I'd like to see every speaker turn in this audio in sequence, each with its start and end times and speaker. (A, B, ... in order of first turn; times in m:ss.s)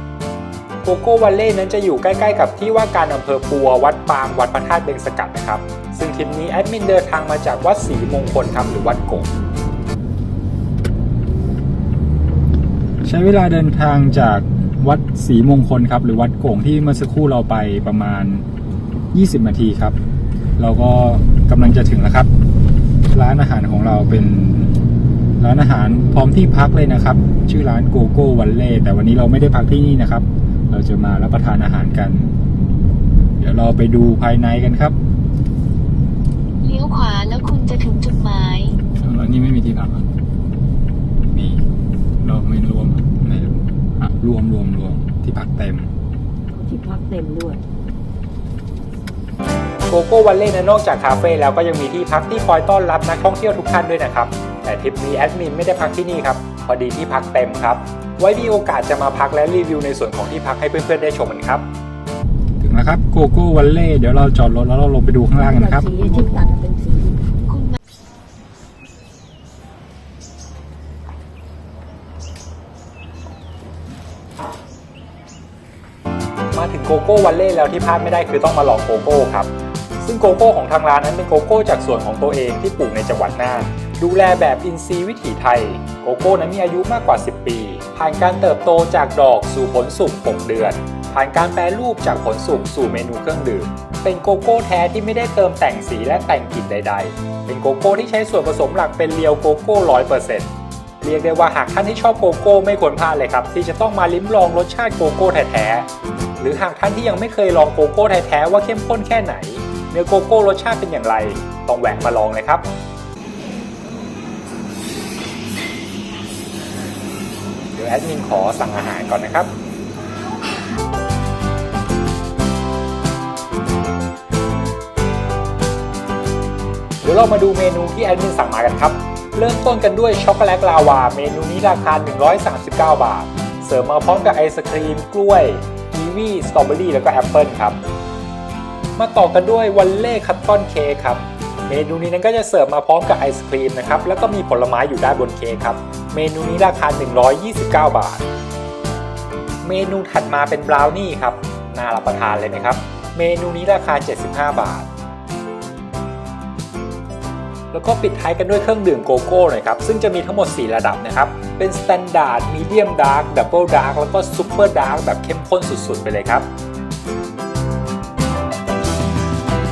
0:00.8-0:09.3 A
0:13.0-0:18.4 A
0:19.1-0:20.0 A
0:20.6-0:22.3 A
0:23.1-0:24.9 A
0:25.4-0:32.4 A
0:33.4-0:35.0 A
0:36.6-0:38.8 B
0:41.3-0:41.6 A
0:42.6-0:45.9 A
0:46.6-0:47.6 C
0:49.9-1:01.7 A
1:02.6-1:05.9 A
1:05.4-1:07.3 C
1:07.5-1:07.8 B
1:16.5-1:40.5 A
1:41.0-1:52.7 A
1:57.8-1:59.5 A
2:07.0-2:17.8 A
2:19.0-2:28.2 A
2:29.6-2:34.9 A
2:37.7-2:46.5 A